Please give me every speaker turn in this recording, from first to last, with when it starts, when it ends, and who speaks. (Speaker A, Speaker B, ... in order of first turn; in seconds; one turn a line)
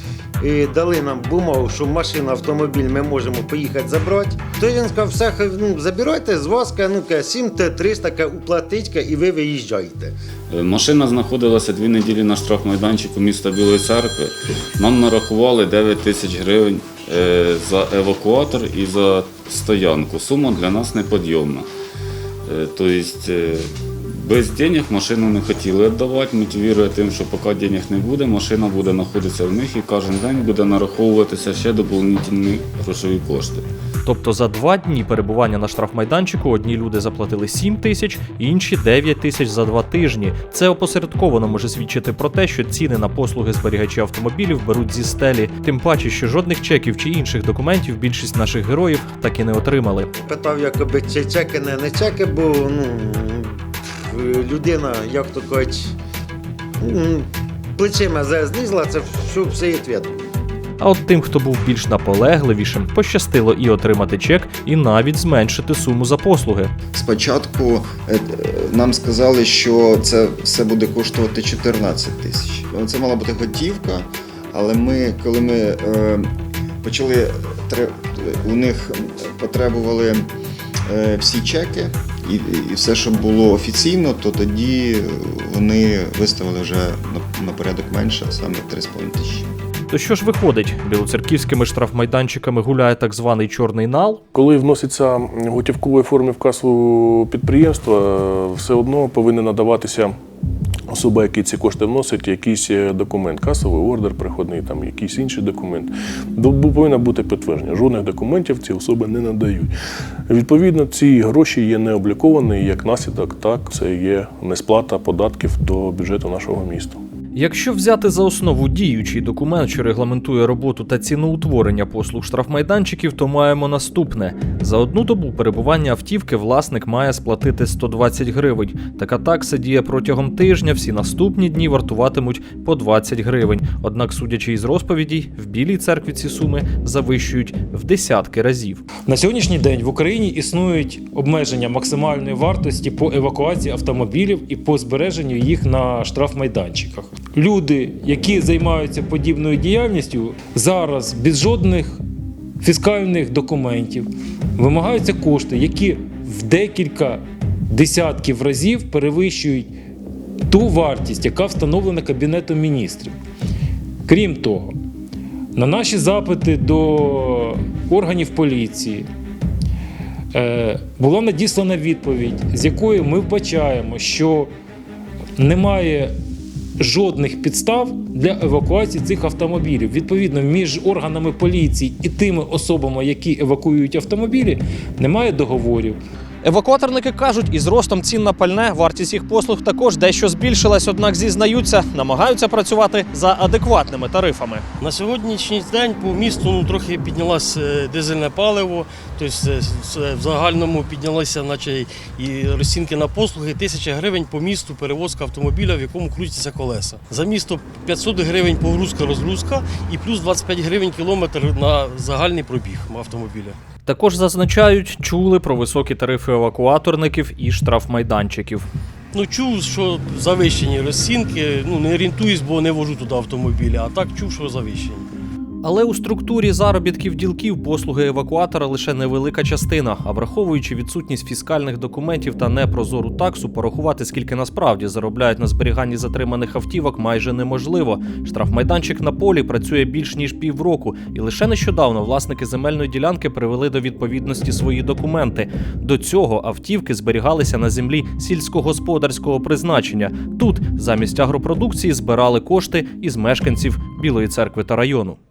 Speaker A: 0.4-10.1
Speaker B: 10.5-21.7
Speaker B: 22.5-33.7
Speaker C: 34.0-50.1
Speaker A: 50.2-53.6
Speaker A: 54.1-55.9
Speaker A: 56.8-60.1
Speaker C: 60.8-66.7
Speaker D: 66.9-76.3
Speaker D: 76.8-80.2
Speaker D: 80.9-89.5
Speaker C: 89.9-94.2
Speaker E: 94.3-100.1
Speaker E: 100.9-109.7
Speaker E: 110.3-117.0
Speaker C: 117.3-138.8
Speaker F: 139.1-152.0
Speaker F: 152.6-159.7
Speaker F: 160.5-163.1
Speaker F: 164.1-164.7
Speaker F: 165.5-169.0
Speaker F: 170.3-174.5
Speaker F: 175.4-176.1
Speaker F: 176.8-186.0
Speaker C: 186.4-194.6
Speaker G: 194.8-213.6
Speaker C: 213.8-218.7
Speaker G: 219.1-225.1
Speaker C: 225.6-255.2